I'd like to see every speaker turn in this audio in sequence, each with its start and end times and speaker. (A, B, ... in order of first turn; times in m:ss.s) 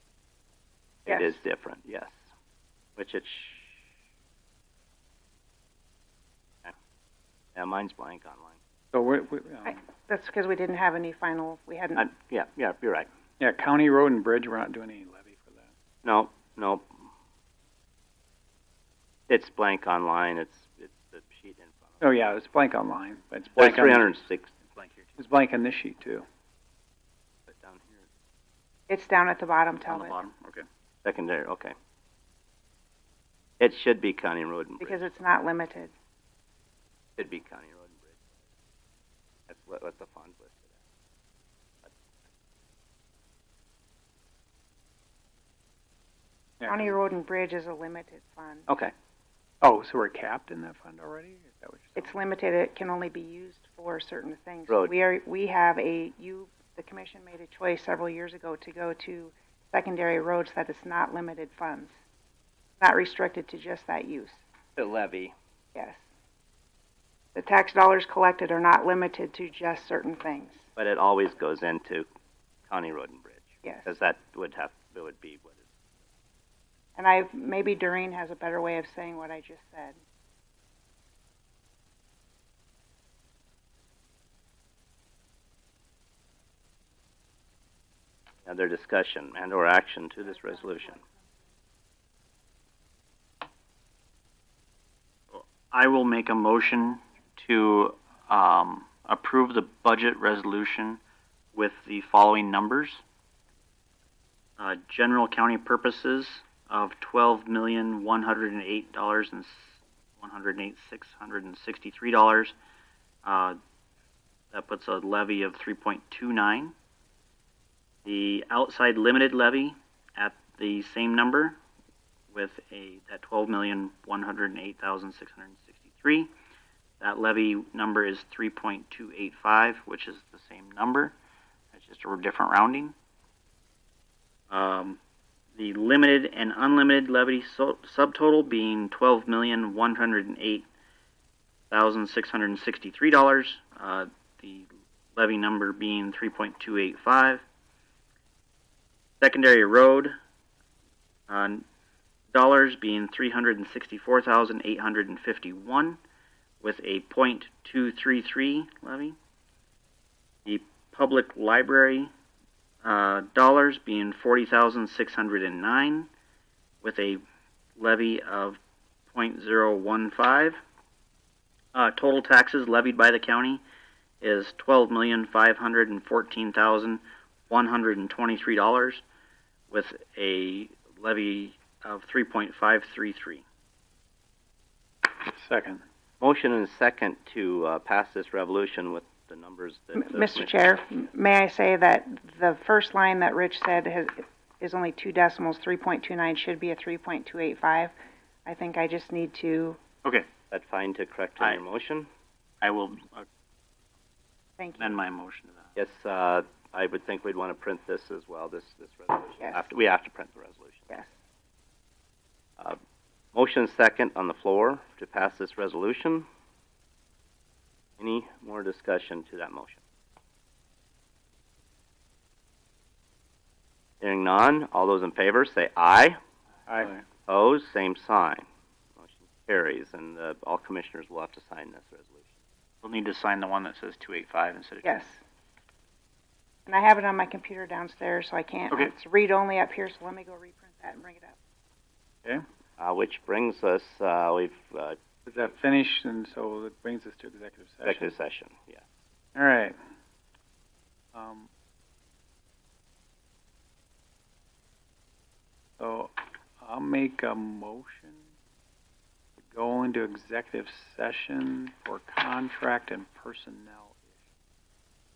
0:01.0-0:01.4 A
0:01.0-0:02.1 B
0:03.0-0:03.8 B
0:07.6-0:08.6 B
0:08.9-0:09.8 C
0:09.6-0:12.1 A
0:12.0-0:13.1 B
0:13.4-0:15.7 C
0:16.0-0:16.9 B
0:19.3-0:22.0 B
0:22.0-0:24.0 C
0:23.6-0:24.5 B
0:24.7-0:25.0 D
0:25.2-0:26.2 C
0:27.5-0:28.0 B
0:28.9-0:30.2 A
0:29.9-0:30.6 D
0:31.0-0:31.7 B
0:33.6-0:35.1 B
0:34.8-0:35.9 A
0:37.2-0:38.2 B
0:39.5-0:40.7 B
0:46.6-0:46.9 C
0:46.7-0:48.7 A
0:48.7-0:48.9 B
0:49.6-0:52.1 C
0:52.0-1:02.0 A
1:02.8-1:04.4 A
1:04.8-1:05.3 B
1:05.7-1:06.0 A
1:07.3-1:10.6 A
1:10.8-1:12.1 B
1:12.7-1:15.7 B
1:17.0-1:20.0 A
1:28.4-1:31.0 B
1:35.3-1:41.0 D
1:41.5-1:43.0 D
1:44.6-1:52.5 D
1:53.2-1:53.6 D
1:54.5-1:56.7 D
1:58.0-2:01.6 D
2:02.3-2:06.3 D
2:07.0-2:11.1 D
2:11.7-2:12.9 D
2:14.5-2:15.0 D
2:15.6-2:20.6 D
2:21.7-2:27.4 D
2:29.2-2:30.1 D
2:31.3-2:31.6 D
2:32.3-2:36.0 D
2:36.6-2:39.2 D
2:40.4-2:42.1 D
2:42.8-2:46.1 D
2:46.8-2:47.2 D
2:47.8-2:48.6 D
2:49.1-2:50.6 D
2:51.7-2:53.6 D
2:54.2-2:59.0 D
2:59.7-3:03.4 D
3:05.2-3:05.8 C
3:06.2-3:10.5 B
3:09.9-3:17.9 A
3:18.4-3:19.8 A
3:20.5-3:22.1 B
3:22.6-3:23.2 D
3:24.6-3:25.0 A
3:24.8-3:25.7 D
3:25.8-3:30.9 B
3:29.4-3:29.7 A
3:33.3-3:36.2 B
3:38.0-3:39.8 B
3:44.0-3:46.2 B
3:46.7-3:47.0 C
3:47.3-3:48.4 B
3:49.0-3:52.2 B
3:52.8-3:55.0 D
3:54.8-3:55.2 A
3:56.6-4:01.4 A
4:02.8-4:05.0 B
4:05.2-4:08.1 C
4:07.8-4:08.8 B
4:09.3-4:09.8 C
4:11.1-4:11.5 C
4:15.8-4:18.2 C
4:19.4-4:24.1 C